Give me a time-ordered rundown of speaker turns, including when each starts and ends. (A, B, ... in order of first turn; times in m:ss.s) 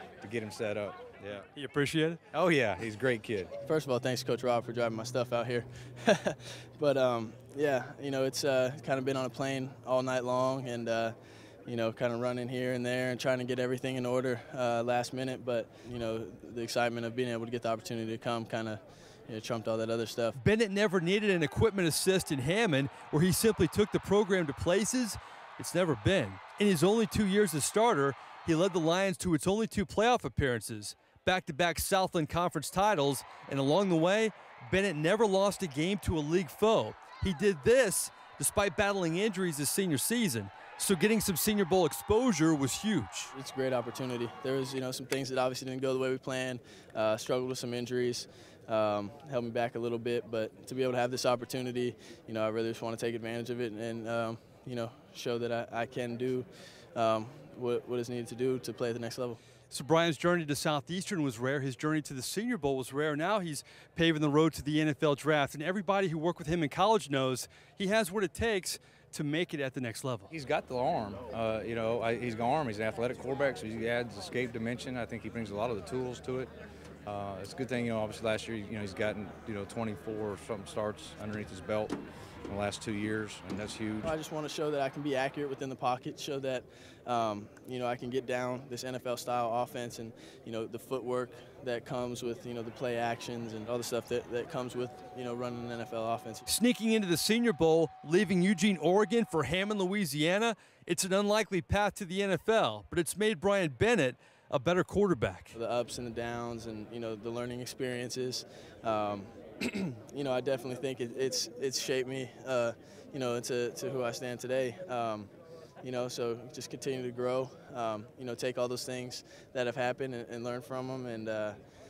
0:00.2-0:01.4 A
0:01.5-0:02.2 B
0:02.3-0:03.5 A
0:03.6-0:11.1 C
0:11.6-0:20.4 C
0:20.3-0:43.3 B
0:43.3-0:59.4 C
0:59.7-1:10.3 B
1:10.3-1:16.5 A
1:17.0-1:24.1 A
1:24.0-1:36.5 C
1:36.5-1:45.6 B
1:45.5-1:55.3 C
1:55.8-2:01.6 C